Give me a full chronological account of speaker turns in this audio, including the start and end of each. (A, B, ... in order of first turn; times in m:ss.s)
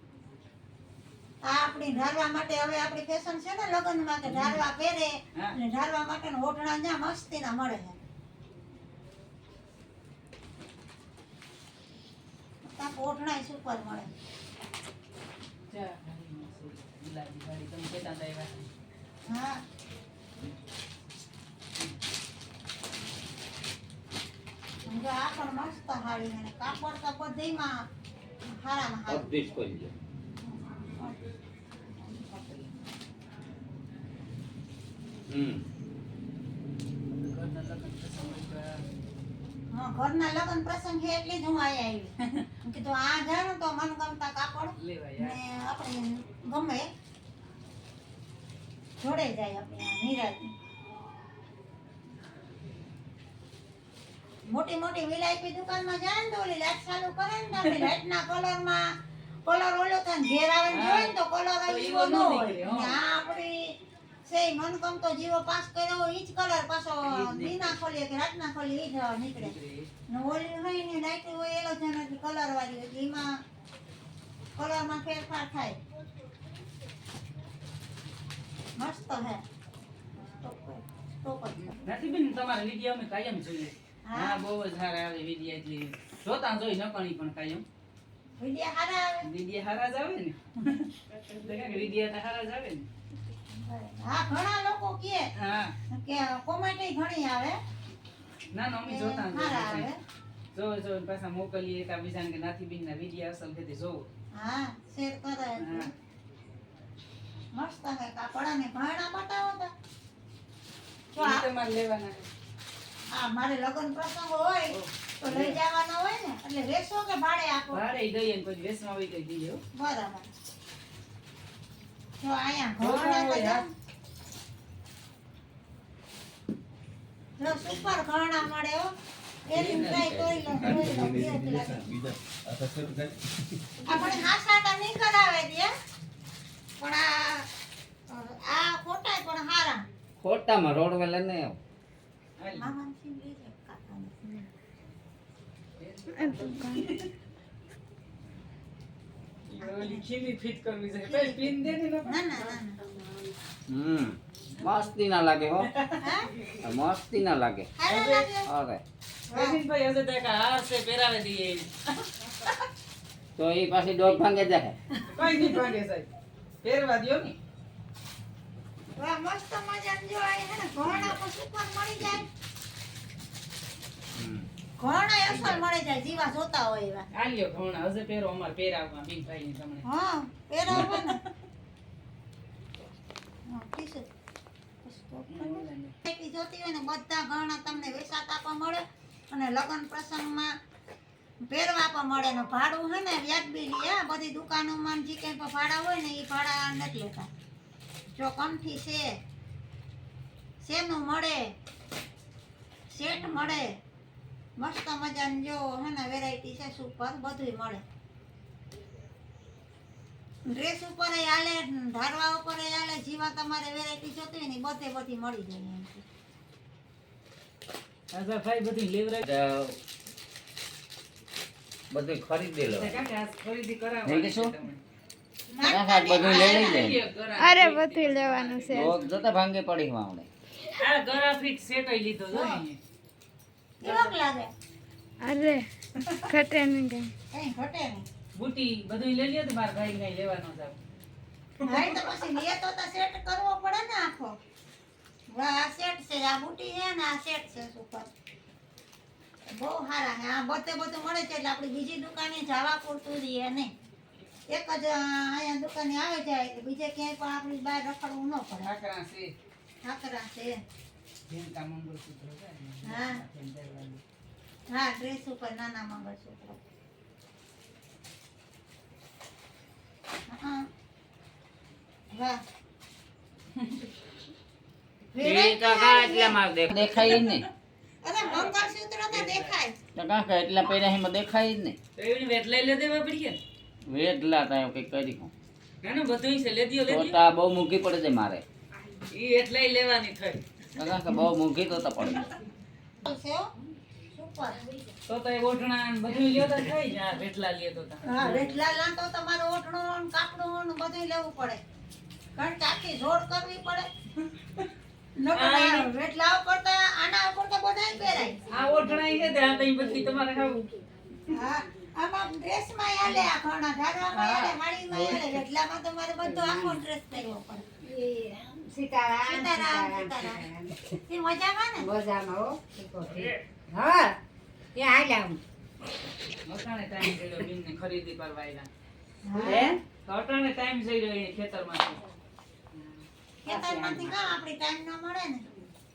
0:01.4-0:08.0 A
0:04.3-0:04.6 B
0:12.6-0:14.1 A
0:15.7-0:18.7 B
0:19.2-0:19.6 A
0:24.9-0:27.8 A
0:28.5-0:29.3 A
0:29.1-0:29.9 C
0:30.6-0:31.2 A
0:32.0-0:32.5 A
0:35.3-0:35.6 C
0:37.1-0:38.8 B
0:39.7-0:46.9 A
0:44.8-0:45.4 B
0:49.0-0:50.5 A
0:54.4-1:09.5 A
1:00.7-1:03.0 B
1:07.0-1:07.6 B
1:09.3-1:09.9 B
1:10.1-1:13.4 A
1:14.6-1:15.8 A
1:18.8-1:19.4 A
1:20.2-1:21.8 A
1:21.8-1:27.6 B
1:24.0-1:24.4 A
1:28.4-1:29.3 A
1:29.2-1:32.8 B
1:33.5-1:35.3 A
1:35.4-1:35.7 B
1:35.9-1:37.6 A
1:38.5-1:39.9 B
1:38.9-1:40.0 A
1:40.5-1:44.1 B
1:44.3-1:45.9 A
1:45.6-1:45.9 B
1:47.5-1:49.7 A
1:51.1-1:51.4 A
1:51.2-1:52.3 B
1:53.1-1:57.8 A
1:54.7-1:55.6 B
1:57.7-1:59.6 B
1:59.7-2:00.3 A
2:02.2-2:03.7 A
2:02.8-2:03.6 B
2:07.4-2:08.9 A
2:09.4-2:11.9 A
2:09.5-2:10.4 C
2:12.6-2:13.0 C
2:13.8-2:15.7 A
2:16.8-2:17.5 A
2:18.1-2:19.8 A
2:20.2-2:21.6 C
2:22.4-2:22.7 B
2:22.5-2:24.4 A
2:25.8-2:27.1 B
2:26.2-2:26.9 D
2:29.5-2:33.3 B
2:29.6-2:30.0 A
2:31.0-2:32.8 A
2:33.7-2:35.7 C
2:35.6-2:36.6 B
2:36.0-2:36.3 A
2:36.6-2:37.7 C
2:37.8-2:38.5 A
2:37.9-2:38.3 B
2:38.4-2:38.8 C
2:39.3-2:39.6 A
2:39.3-2:42.6 B
2:43.4-2:44.8 C
2:45.1-2:46.1 B
2:46.6-2:47.4 B
2:49.0-2:52.3 A
2:54.1-2:54.5 C
2:54.8-2:57.1 A
2:55.3-2:55.6 B
2:57.1-2:59.8 B
2:59.8-3:01.2 A
3:00.7-3:01.0 B
3:03.4-3:04.1 A
3:04.8-3:10.5 A
3:05.3-3:05.9 B
3:11.4-3:17.3 A
3:18.1-3:19.1 A
3:20.6-3:21.5 A
3:22.9-3:23.8 A
3:24.6-3:27.8 A
3:30.5-3:36.0 A
3:38.1-3:39.3 B
3:39.2-3:39.8 C
3:41.9-3:42.9 C
3:42.6-3:44.8 B
3:44.0-3:44.5 C
3:45.5-3:46.7 A
3:45.6-3:47.0 C
3:46.2-3:49.2 B
3:47.4-3:48.9 D
3:48.7-3:50.3 C
3:50.8-3:52.8 B
3:52.3-3:52.6 A
3:53.8-3:54.5 A
3:53.8-3:54.1 B
3:55.2-3:55.6 D
3:56.2-3:57.1 D
3:57.3-3:58.0 A
3:58.4-4:00.8 B
4:01.6-4:02.3 B
4:01.6-4:04.4 A
4:05.3-4:08.1 A
4:09.5-4:13.7 A
4:14.5-4:18.7 A
4:18.6-4:19.3 B
4:19.8-4:20.6 A
4:21.3-4:24.0 B
4:22.8-4:23.2 A
4:24.7-4:26.6 A
4:30.3-4:30.7 A
4:32.1-4:32.4 A
4:35.1-4:36.4 A
4:35.2-4:37.4 C
4:36.7-4:37.4 B
4:38.0-4:39.8 A
4:38.2-4:38.6 B
4:39.1-4:39.6 B
4:39.9-4:41.8 C
4:42.0-4:43.4 B
4:43.9-4:45.3 C
4:45.8-4:47.2 B
4:46.8-4:48.4 C
4:48.8-4:49.0 E
4:49.1-4:50.4 B
4:50.8-4:52.3 C
4:53.0-4:53.5 A
4:54.1-4:54.6 A
4:55.1-4:58.5 B
4:58.0-5:01.6 A
5:02.4-5:03.9 A
5:04.2-5:04.6 B
5:05.2-5:08.4 A
5:05.3-5:05.9 B
5:08.5-5:11.4 B
5:11.3-5:17.6 A
5:14.1-5:14.5 B
5:14.9-5:15.4 E
5:16.2-5:16.8 E
5:17.8-5:21.0 E
5:19.2-5:20.4 A
5:21.0-5:21.9 A
5:21.8-5:24.2 E
5:23.1-5:23.3 B
5:24.7-5:25.4 E
5:26.4-5:28.7 B
5:29.2-5:29.7 A
5:29.4-5:32.0 B
5:29.4-5:29.8 E
5:32.7-5:34.4 E
5:33.4-5:35.5 A